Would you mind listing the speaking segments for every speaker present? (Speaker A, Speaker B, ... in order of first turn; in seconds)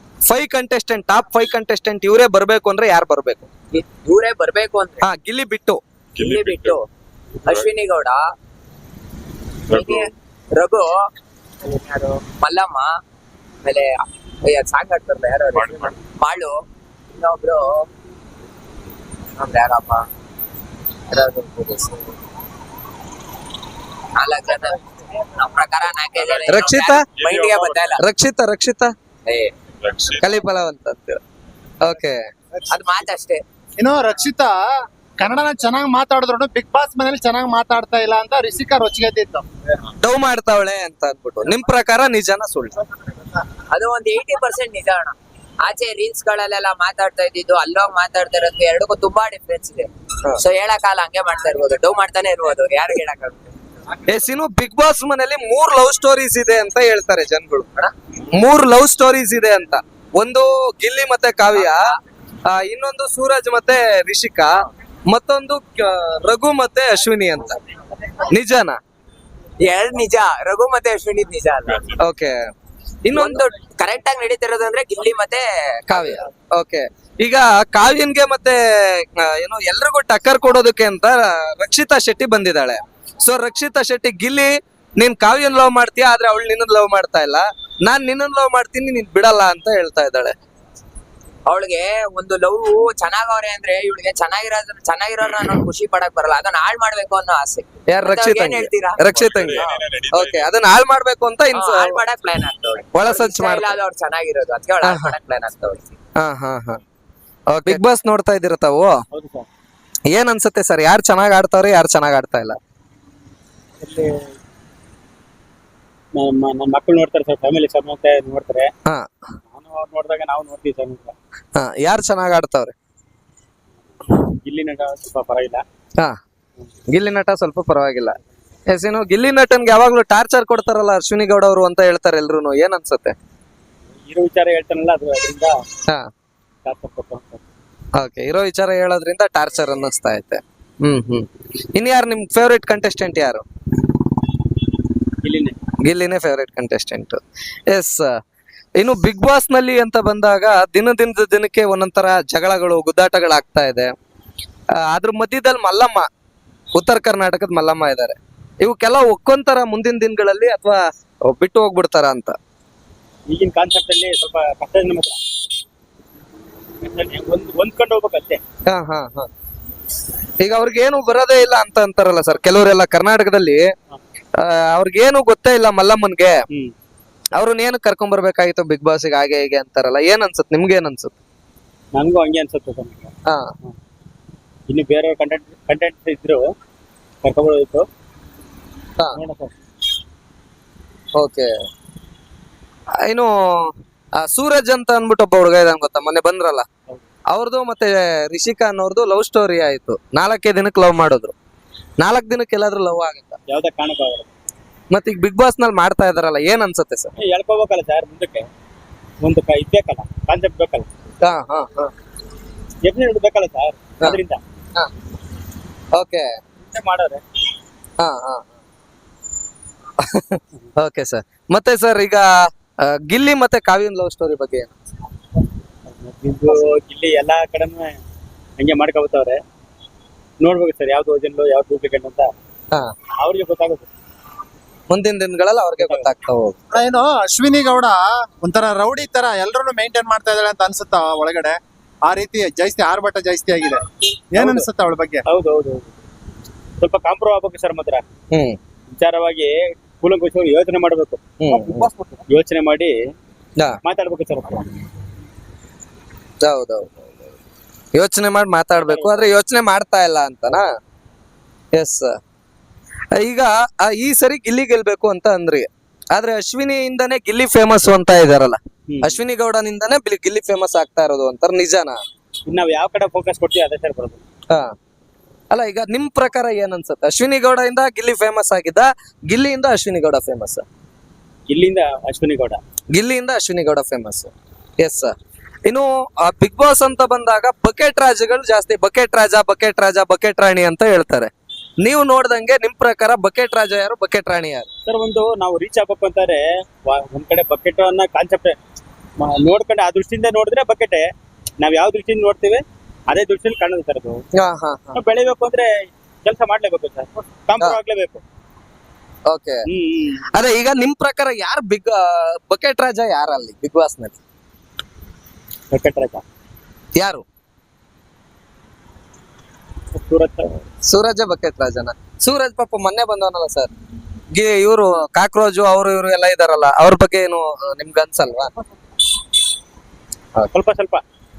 Speaker A: 0.3-3.5, 5.0-5.8, 26.5-27.0, 28.0-28.9, 30.2-31.2, 31.8-32.2, 40.0-42.7, 54.1-57.7, 58.3-61.8, 62.4-64.5, 65.1-67.6, 68.3-68.8, 72.0-72.3, 73.0-73.4, 75.9-90.3, 97.9-102.0, 102.9-103.8, 104.8-105.1, 106.2-106.8, 107.5-109.0, 110.1-112.6, 121.5-122.7, 126.9-128.2, 128.7-133.1, 138.0-143.4, 145.8-148.2, 148.8-153.9, 154.8-156.1, 156.7-162.3, 168.7-169.3, 170.4-173.7, 174.4-176.4, 177.4-181.1, 183.2-183.5, 191.1-191.5, 193.1-196.6, 197.3-201.3, 202.0-203.4, 204.9-207.1, 211.2-211.9, 215.9-216.3, 218.0-218.5, 220.0-224.8, 234.9-236.6, 248.3-248.6, 251.4-251.9, 256.4-257.1, 257.9-260.6, 261.7-262.2, 263.1-272.0, 275.5-280.6, 282.9-285.1, 285.6-291.3, 291.8-294.7, 304.3-305.0, 309.3-309.6, 310.3-314.2, 317.0-317.2, 320.8-323.7, 324.3-328.5
Speaker B: 3.7-5.0, 6.2-6.8, 7.4-8.2, 9.7-10.9, 11.7-12.9, 13.6-16.5, 17.1-17.8, 19.4-20.0, 21.1-22.1, 24.1-24.8, 25.3-28.0, 29.2-29.5, 32.7-33.4, 43.7-53.5, 61.5-62.0, 69.6-71.9, 73.1-76.1, 91.5-99.8, 101.5-105.9
Speaker C: 6.1-6.8, 7.4-7.7, 9.7-10.1, 15.5-16.0, 26.2-26.4, 27.0-28.0, 29.8-30.4, 71.7-72.0, 99.1-100.5
Speaker D: 33.8-34.6, 35.2-39.5, 236.7-245.2
Speaker E: 109.1-109.5, 113.8-114.3, 116.1-118.7, 119.5-121.1, 124.1-125.6, 134.0-135.6, 136.6-137.4, 145.2-145.6, 163.3-165.2, 166.8-168.4, 181.9-183.7, 184.7-186.5, 187.2-187.8, 189.1-189.5, 203.5-204.3, 207.2-208.5, 209.2-210.9, 212.8-214.4, 216.6-217.2, 225.9-228.0, 228.6-229.4, 230.4-232.3, 233.2-233.8, 235.8-236.1, 244.3-244.7, 245.2-245.9, 246.8-248.0, 248.9-252.9, 253.8-254.7, 258.7-259.3, 268.9-269.2, 272.4-274.2, 281.5-282.6, 294.9-298.6, 299.2-301.1, 301.6-304.2, 304.9-308.2, 309.7-310.3, 315.7-316.2, 319.9-320.6, 330.5-331.0